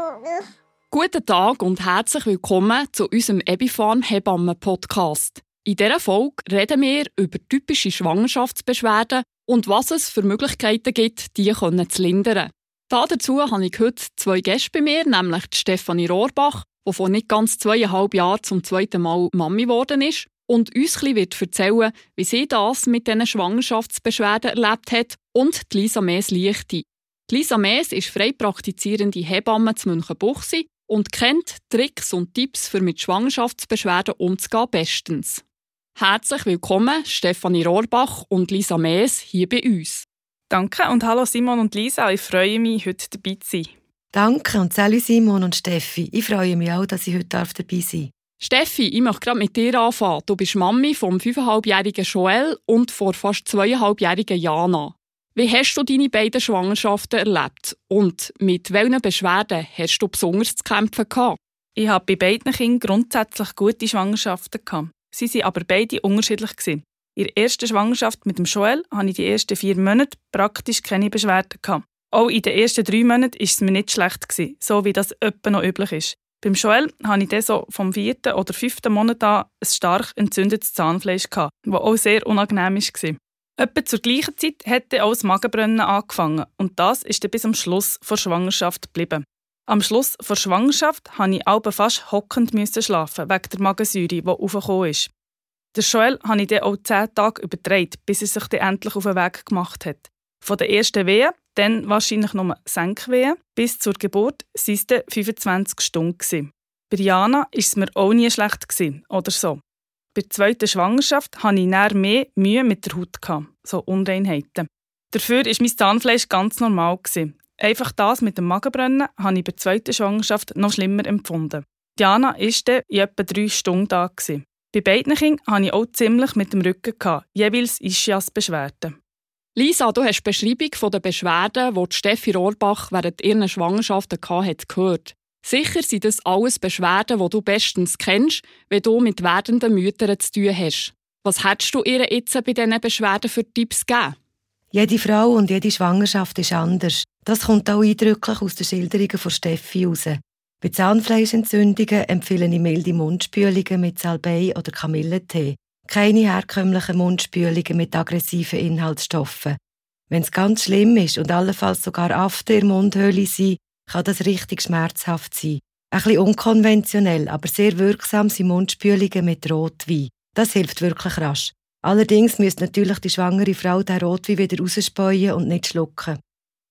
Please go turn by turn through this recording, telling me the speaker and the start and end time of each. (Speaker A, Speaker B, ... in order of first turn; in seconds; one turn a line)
Speaker A: 0.9-35.4
Speaker A: 36.0-40.0
Speaker B: 40.5-43.7
Speaker C: 44.1-48.1
Speaker A: 48.4-61.4
Speaker B: 61.8-95.1
Speaker B: 95.8-109.6
Speaker B: 110.2-128.9
Speaker A: 129.6-144.2
Speaker C: 144.7-159.6
Speaker C: 160.1-176.2